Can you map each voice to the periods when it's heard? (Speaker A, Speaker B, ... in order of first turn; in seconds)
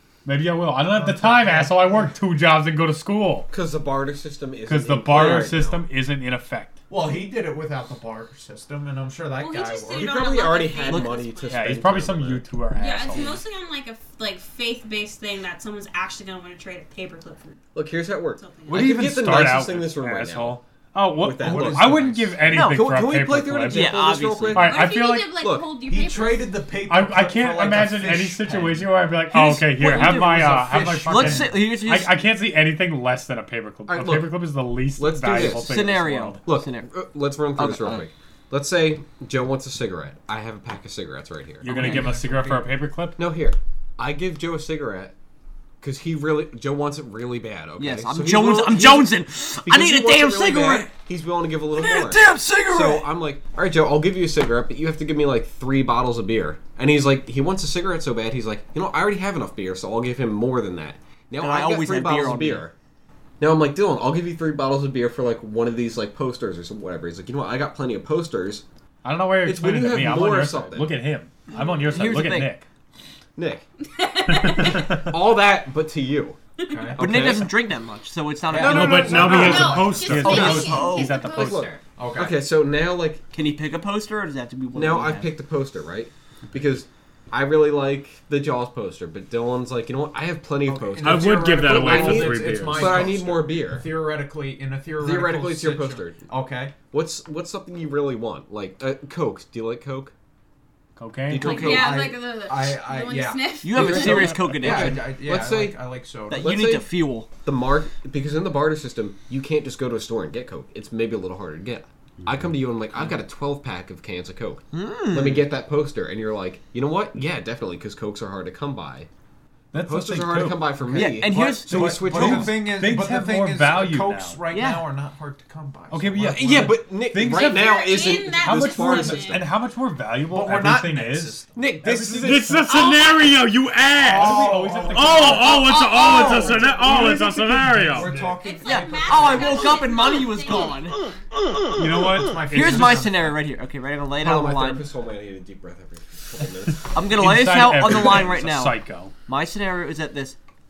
Speaker A: 0.2-3.4, 4.7-6.8, 11.5-13.4, 18.7-23.9, 24.5-25.4, 26.9-36.4, 41.6-43.2, 69.0-72.7, 74.3-75.1, 78.6-81.8, 101.0-101.7, 119.7-124.4, 125.9-133.1, 134.0-135.7, 136.8-138.3, 141.7-143.1, 146.7-149.1
Speaker B: 0.7-2.1, 5.1-5.5, 6.9-10.2, 21.4-22.4, 25.9-28.9, 30.0-31.5, 41.6-42.9, 76.6-77.0, 82.0-82.4, 90.7-96.7, 101.5-106.5, 121.0-126.7, 130.2-131.7, 134.0-135.7, 136.2-139.9, 141.8-143.4
Speaker C: 2.6-3.5, 23.1-23.5, 27.1-27.6, 28.1-30.6, 78.8-80.3, 91.0-93.0, 132.2-134.4, 134.9-138.4
Speaker D: 3.5-5.9, 9.9-12.4, 17.7-20.6, 21.2-25.7, 33.9-35.7, 36.5-42.0, 43.2-45.1, 45.8-49.1, 49.6-62.7, 63.4-68.6, 69.4-71.1, 73.3-73.7, 74.5-76.4, 76.9-77.5, 78.5-80.6, 81.2-83.2, 84.7-93.9, 95.0-96.2, 96.9-100.1, 101.3-102.0, 104.0-106.9, 107.4-119.1, 119.8-122.6, 126.2-129.5, 131.5-132.7, 144.2-146.8
Speaker E: 9.4-11.9, 12.7-17.6, 18.4-18.9, 24.5-26.6, 74.0-74.8, 79.0-81.8, 101.3-104.0, 127.3-129.4, 132.7-133.3, 135.2-137.0, 138.4-141.3
Speaker F: 10.9-11.2, 22.5-22.8, 23.7-24.7, 29.3-32.1, 35.3-36.9, 37.5-38.0, 41.7-42.0, 47.8-50.9, 51.8-53.0, 61.4-62.6, 71.7-72.6, 77.0-79.4, 80.2-81.2, 83.3-85.3, 103.6-105.0, 106.3-107.3, 114.7-115.5, 120.9-121.7, 124.5-124.8, 138.6-140.9, 142.5-144.8, 146.9-150.4